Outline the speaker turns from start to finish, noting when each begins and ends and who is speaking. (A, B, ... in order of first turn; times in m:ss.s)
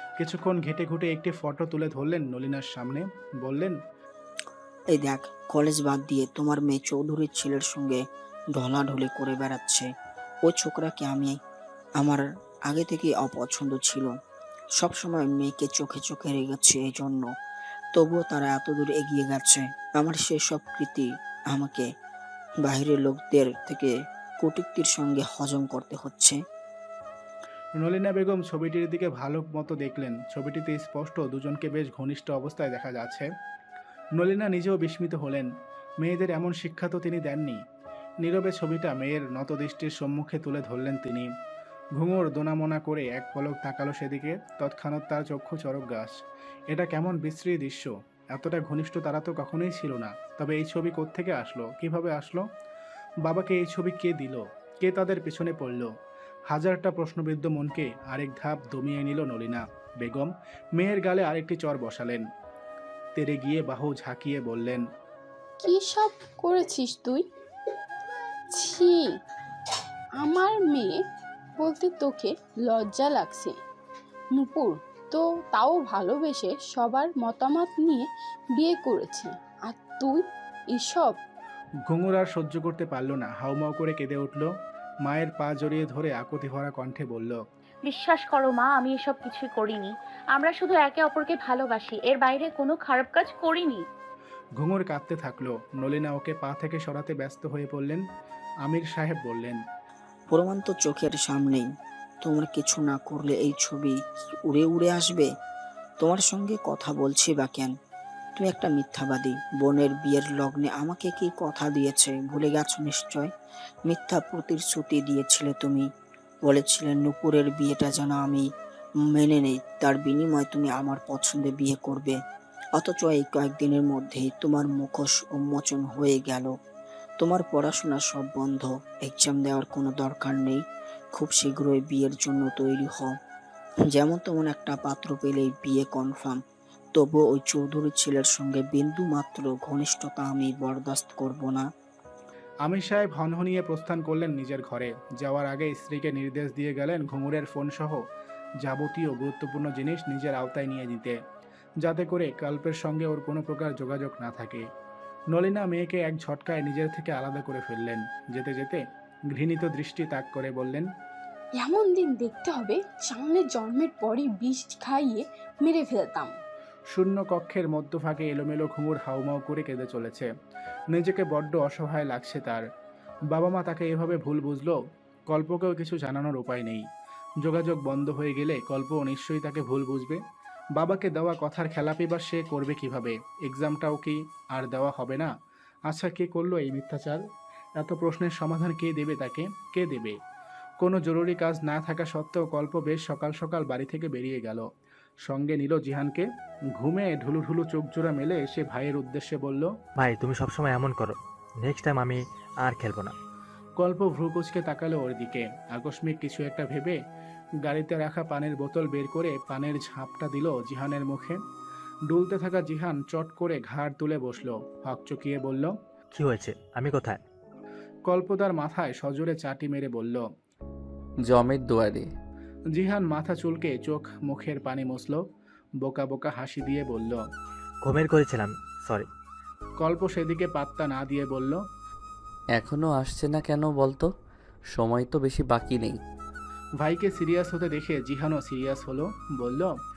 0:00.2-0:03.8 A
0:04.9-0:08.0 B
0:08.6-0:09.9 B
0:10.5-0:11.4 B
0:12.0-0:14.1 B
0:14.8-0:17.3 B
0:17.9-0:21.9 B
0:22.6-0:26.4 B
0:27.8-0:33.3 A
0:34.2-0:35.5 A
0:36.0-0:37.6 A
0:38.2-0:41.3 A
0:42.0-0:46.2 A
0:46.7-0:52.4 A
0:53.3-0:55.9 A
0:56.5-1:02.2 A
1:03.2-1:04.8 A
1:05.6-1:07.2 C
1:08.5-1:09.0 C
1:10.2-1:11.0 C
1:11.6-1:13.6 C
1:14.4-1:18.1 C
1:18.6-1:20.2 C
1:20.7-1:21.2 C
1:21.9-1:24.5 A
1:25.0-1:27.4 A
1:27.8-1:33.8 D
1:34.6-1:38.0 A
1:38.6-1:39.6 A
1:40.3-1:41.7 B
1:42.2-1:45.3 B
1:46.0-1:47.7 B
1:48.4-1:53.3 B
1:53.9-1:55.9 B
1:56.4-1:58.4 B
1:59.1-2:02.2 B
2:02.8-2:06.5 B
2:07.2-2:10.6 B
2:11.1-2:13.1 B
2:13.9-2:16.4 B
2:17.0-2:21.7 B
2:22.6-2:28.0 A
2:28.6-2:31.2 A
2:31.8-2:34.7 A
2:35.3-2:38.8 A
2:39.3-2:40.9 A
2:41.6-2:46.3 C
2:46.9-2:50.3 A
2:50.9-2:52.6 A
2:53.3-2:54.8 A
2:55.3-2:56.8 A
2:57.4-3:00.2 A
3:00.8-3:05.3 A
3:05.9-3:07.2 A
3:07.8-3:10.2 A
3:10.8-3:14.7 A
3:15.3-3:16.3 A
3:16.8-3:19.7 A
3:20.0-3:23.1 E
3:23.8-3:27.0 A
3:27.7-3:31.4 A
3:32.1-3:35.7 A
3:36.2-3:37.2 E
3:38.1-3:40.2 A
3:41.3-3:42.1 F
3:42.8-3:45.2 A
3:45.8-3:47.2 A
3:47.8-3:49.1 E
3:49.8-3:51.6 A
3:52.6-3:54.1 F
3:54.7-3:56.0 F
3:56.8-3:59.7 A